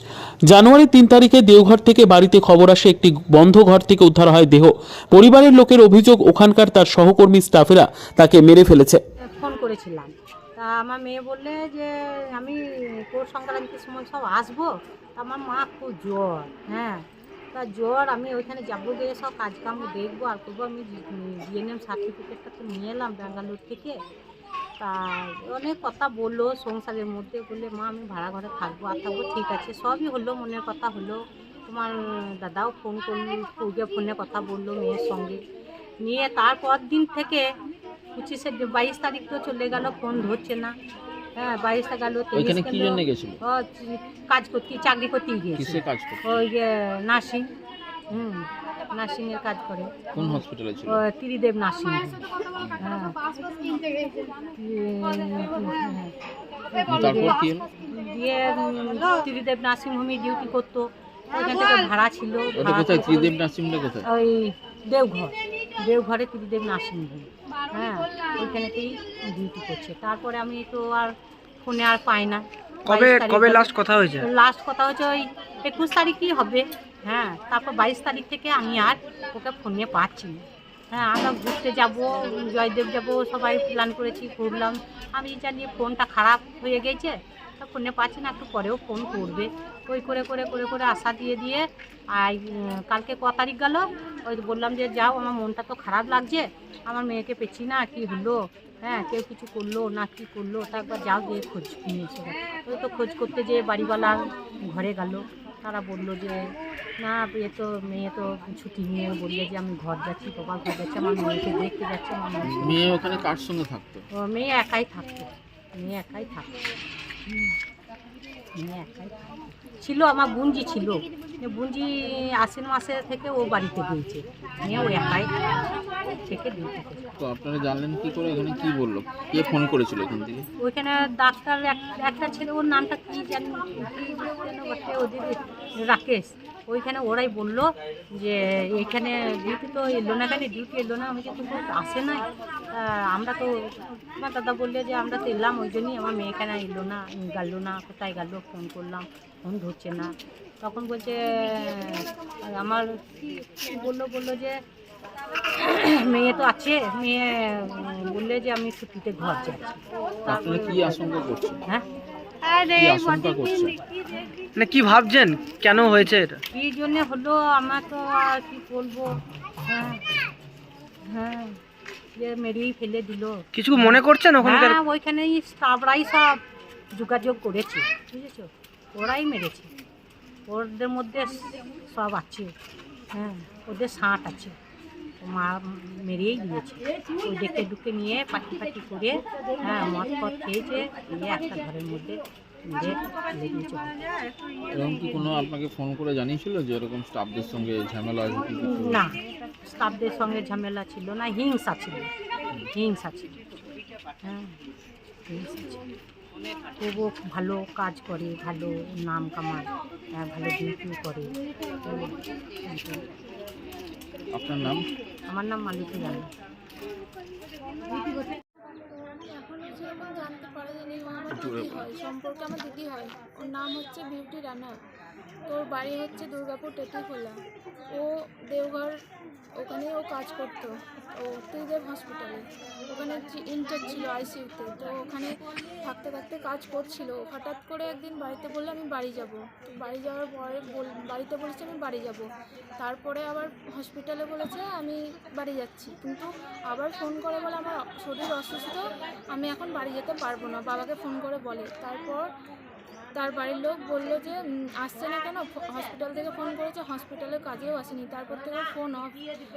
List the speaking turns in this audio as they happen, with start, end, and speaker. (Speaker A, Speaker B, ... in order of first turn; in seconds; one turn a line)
Speaker A: 0.5-9.0
Speaker B: 9.3-24.0
Speaker B: 24.8-35.4
Speaker B: 36.0-37.5
Speaker B: 38.1-40.7
Speaker B: 41.4-47.5
Speaker C: 42.3-43.4
Speaker C: 45.5-46.5
Speaker B: 48.1-52.2
Speaker C: 50.1-51.0
Speaker C: 52.6-52.9
Speaker B: 52.8-53.1
Speaker B: 54.6-56.1
Speaker B: 56.7-63.3
Speaker C: 56.9-57.7
Speaker C: 62.5-64.1
Speaker B: 64.0-113.0
Speaker D: 72.9-74.3
Speaker C: 112.4-114.0
Speaker B: 114.1-116.5
Speaker B: 117.3-117.6
Speaker B: 118.6-125.3
Speaker B: 126.1-127.0
Speaker C: 127.2-130.5
Speaker B: 130.6-150.1
Speaker B: 150.6-154.6
Speaker B: 155.6-161.1
Speaker C: 160.3-161.6
Speaker C: 162.7-163.8
Speaker D: 164.6-166.4
Speaker B: 166.5-169.1
Speaker B: 169.7-170.0
Speaker B: 171.1-171.6
Speaker B: 172.2-176.4
Speaker D: 173.5-174.8
Speaker B: 176.9-179.7
Speaker B: 180.5-182.5
Speaker B: 183.1-184.5
Speaker B: 185.2-193.9
Speaker C: 194.7-199.0
Speaker B: 198.6-202.1
Speaker B: 202.7-203.3
Speaker B: 204.2-204.6
Speaker B: 205.3-205.8
Speaker B: 206.8-213.0
Speaker C: 214.3-214.9
Speaker B: 215.3-216.2
Speaker E: 219.1-224.7
Speaker C: 221.3-221.8
Speaker E: 225.5-227.4
Speaker E: 227.9-228.9
Speaker E: 229.6-242.3
Speaker E: 242.8-248.8
Speaker E: 249.3-252.2
Speaker E: 253.2-259.1